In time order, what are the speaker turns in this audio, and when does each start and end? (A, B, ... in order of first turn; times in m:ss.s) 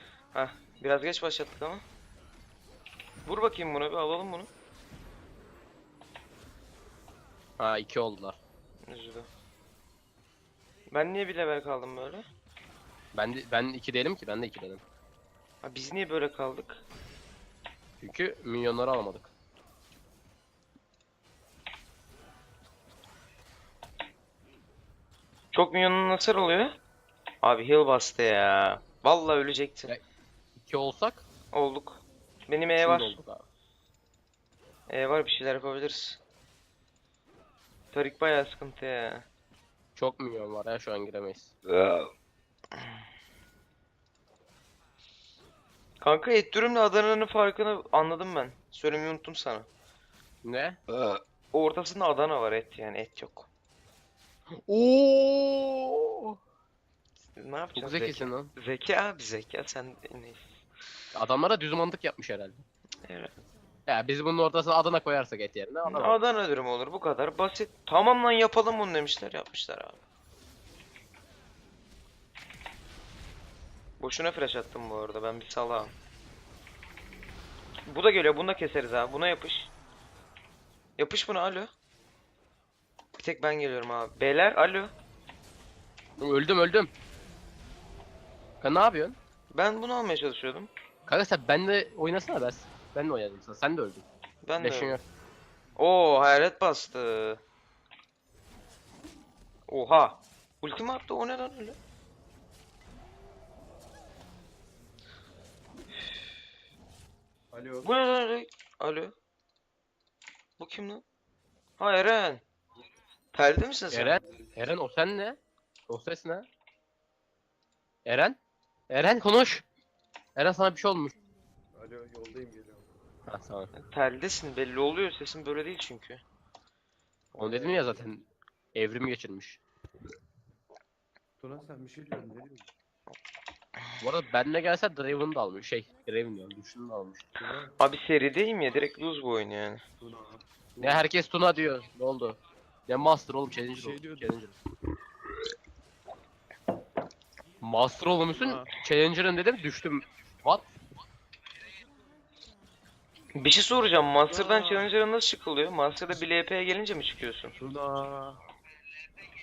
0:00.3-0:01.8 A
0:03.2-0:04.5 A
0:07.6-0:08.4 B
0:08.9-0:09.3 A
0:10.9-0:12.2 A
0:13.1-0:14.8 B
0:15.6-0:16.8 A
0:18.0-0:19.3 B
0:25.5-0:26.8 A
0:27.4-0:29.9 A
0:30.5-0:31.2 B
0:31.5-0:33.2 A
0:32.8-0:33.4 B
0:34.9-0:36.2 A
0:37.9-0:39.2 A
0:40.0-0:41.5 B
0:41.7-0:42.1 A
0:46.0-0:49.7 A
0:50.4-0:50.8 B
0:50.9-0:53.5 A
0:54.5-0:56.4 B
0:57.3-1:00.4 A
0:57.7-0:58.5 B
1:01.1-1:02.6 B
1:03.0-1:03.3 A
1:03.9-1:06.2 B
1:05.8-1:10.0 A
1:14.0-1:15.9 A
1:17.8-1:19.7 A
1:21.0-1:21.7 A
1:23.2-1:24.9 A
1:26.2-1:26.9 B
1:28.6-1:29.2 B
1:29.5-1:30.7 A
1:31.1-1:34.0 B
1:34.4-1:35.0 A
1:34.6-1:35.0 B
1:35.8-1:37.4 A
1:39.7-1:41.8 A
1:47.5-1:47.9 C
1:47.8-1:49.1 A
1:50.6-1:51.0 A
1:51.8-1:52.4 A
1:53.3-1:54.2 A
1:53.9-1:56.5 B
1:58.0-1:58.4 B
1:58.9-1:59.6 B
2:00.4-2:01.1 B
2:01.7-2:02.8 C
2:03.3-2:03.7 B
2:03.7-2:06.2 A
2:07.3-2:08.0 C
2:07.4-2:09.6 B
2:11.4-2:12.7 C
2:14.0-2:17.3 B
2:17.4-2:17.7 C
2:17.8-2:19.8 A
2:20.0-2:20.9 C
2:20.8-2:24.5 B
2:23.7-2:24.4 C
2:27.6-2:30.7 B
2:28.3-2:28.7 C
2:33.3-2:37.5 A
2:34.3-2:34.9 C
2:37.6-2:38.4 C